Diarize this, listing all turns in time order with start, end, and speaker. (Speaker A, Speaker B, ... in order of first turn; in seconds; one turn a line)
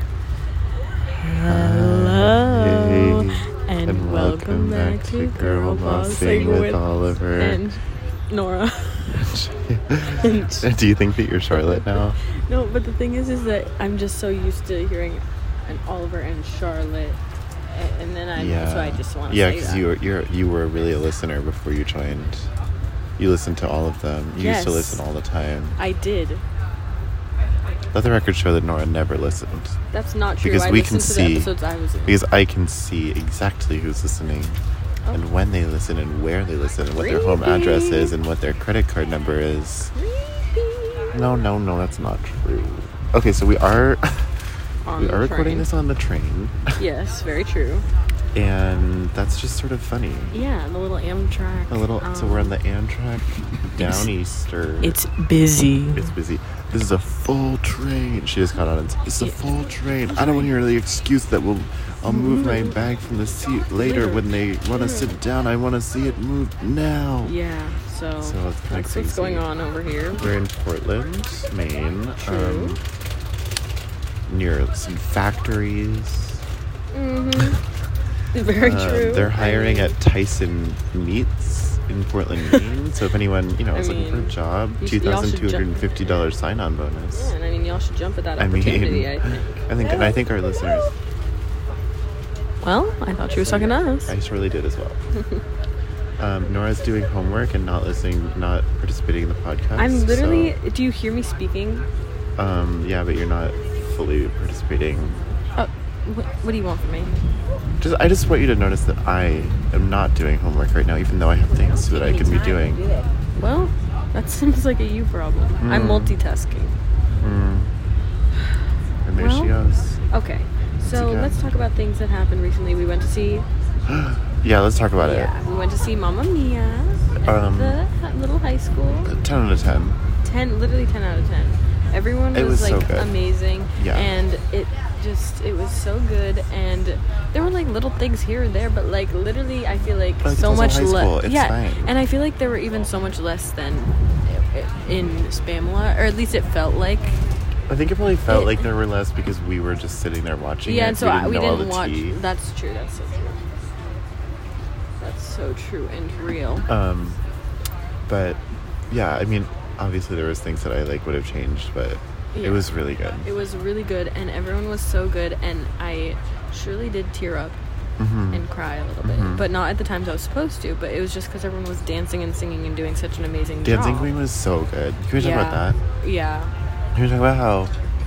Speaker A: 1.2-9.2
Speaker B: 1.5-7.6
Speaker B: 9.2-12.2
Speaker A: 10.1-10.7
Speaker A: 11.5-19.9
Speaker B: 18.4-22.5
Speaker B: 23.2-25.8
Speaker A: 24.3-25.0
Speaker A: 25.8-26.4
Speaker B: 27.9-29.8
Speaker A: 29.9-32.2
Speaker B: 30.4-31.5
Speaker B: 32.1-34.6
Speaker B: 35.1-39.9
Speaker A: 36.8-38.1
Speaker A: 40.0-41.1
Speaker B: 41.1-44.4
Speaker A: 44.9-45.7
Speaker B: 45.0-46.8
Speaker A: 46.8-47.9
Speaker B: 48.3-50.4
Speaker A: 50.3-52.6
Speaker B: 51.7-55.0
Speaker A: 53.7-54.1
Speaker A: 54.8-56.1
Speaker B: 55.9-67.3
Speaker A: 59.2-59.5
Speaker A: 60.1-60.5
Speaker A: 62.1-62.8
Speaker A: 63.8-65.1
Speaker A: 67.2-70.3
Speaker B: 68.2-69.5
Speaker B: 70.2-72.8
Speaker A: 72.2-72.8
Speaker B: 74.3-76.4
Speaker A: 76.9-77.6
Speaker A: 78.3-80.0
Speaker B: 78.6-87.3
Speaker A: 83.7-85.8
Speaker A: 87.1-90.9
Speaker B: 88.4-90.9
Speaker A: 92.6-94.1
Speaker B: 93.4-95.0
Speaker B: 96.2-100.5
Speaker A: 99.8-101.9
Speaker B: 102.4-105.2
Speaker A: 105.5-107.2
Speaker B: 107.8-112.8
Speaker A: 113.4-116.8
Speaker B: 115.6-116.2
Speaker B: 117.2-117.7
Speaker B: 119.0-120.0
Speaker A: 119.2-119.6
Speaker A: 120.1-123.5
Speaker B: 120.8-121.4
Speaker B: 123.9-125.3
Speaker A: 125.0-129.1
Speaker B: 127.2-127.8
Speaker B: 129.1-130.0
Speaker A: 130.2-147.1
Speaker B: 132.3-133.1
Speaker B: 133.8-134.2
Speaker B: 140.2-141.9
Speaker B: 147.7-152.2
Speaker A: 148.3-148.7
Speaker A: 150.7-153.4
Speaker A: 155.0-156.7
Speaker B: 156.7-157.2
Speaker B: 158.1-158.4
Speaker B: 158.9-163.3
Speaker A: 162.3-162.7
Speaker A: 163.2-167.6
Speaker B: 168.0-168.4
Speaker A: 168.3-174.1
Speaker B: 169.0-169.4
Speaker B: 173.6-175.8
Speaker A: 175.2-176.5
Speaker B: 176.9-177.7